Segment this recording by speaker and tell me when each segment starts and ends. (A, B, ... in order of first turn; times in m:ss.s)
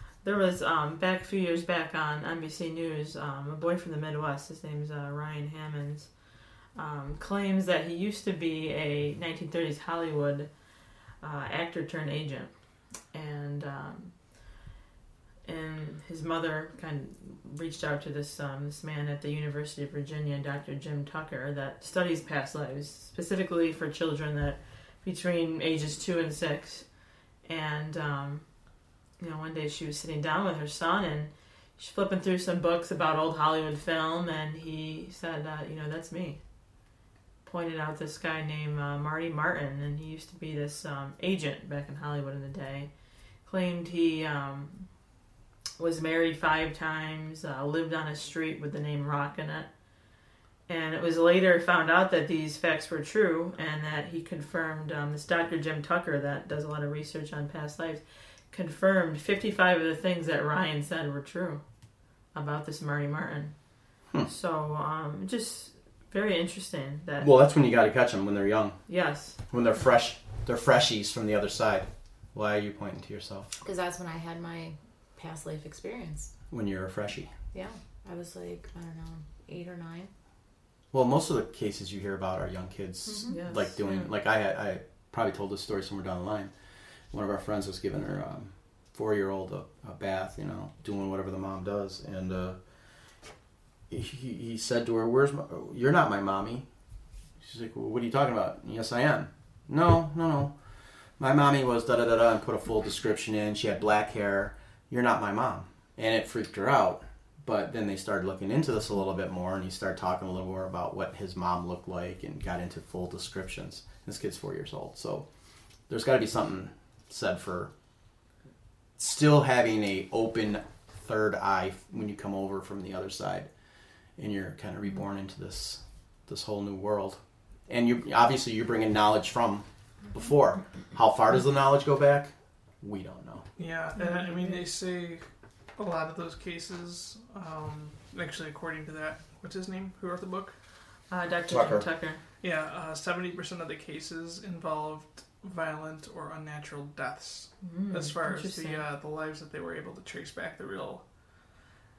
0:00.2-0:06.1 A
0:06.8-0:10.5 A
0:11.2-0:12.5 A
0:13.1-0:14.1 A
0:15.5-0:26.8 A
0:27.4-0:28.4 A
0:29.2-0:36.4 A
0:37.4-0:42.9 A
0:43.5-0:44.9 A
0:45.8-0:49.7 A
0:50.7-1:01.6 A
1:02.3-1:03.5 A
1:04.3-1:07.3 A
1:07.2-1:08.8 B
1:08.9-1:09.4 A
1:09.5-1:13.5 B
1:13.6-1:16.3 C
1:16.5-1:17.3 B
1:17.5-1:20.1 C
1:20.9-1:26.5 B
1:23.1-1:23.4 C
1:23.3-1:24.1 A
1:27.1-1:32.6 B
1:33.9-1:36.6 B
1:37.4-1:40.5 B
1:41.2-1:55.3 B
1:55.9-1:57.7 B
1:59.0-2:03.5 B
2:04.2-2:13.4 B
2:13.6-2:15.2 D
2:14.1-2:14.4 A
2:15.8-2:20.6 D
2:21.1-2:22.2 A
2:21.5-2:21.9 B
2:22.4-2:31.0 D
2:27.6-2:28.8 A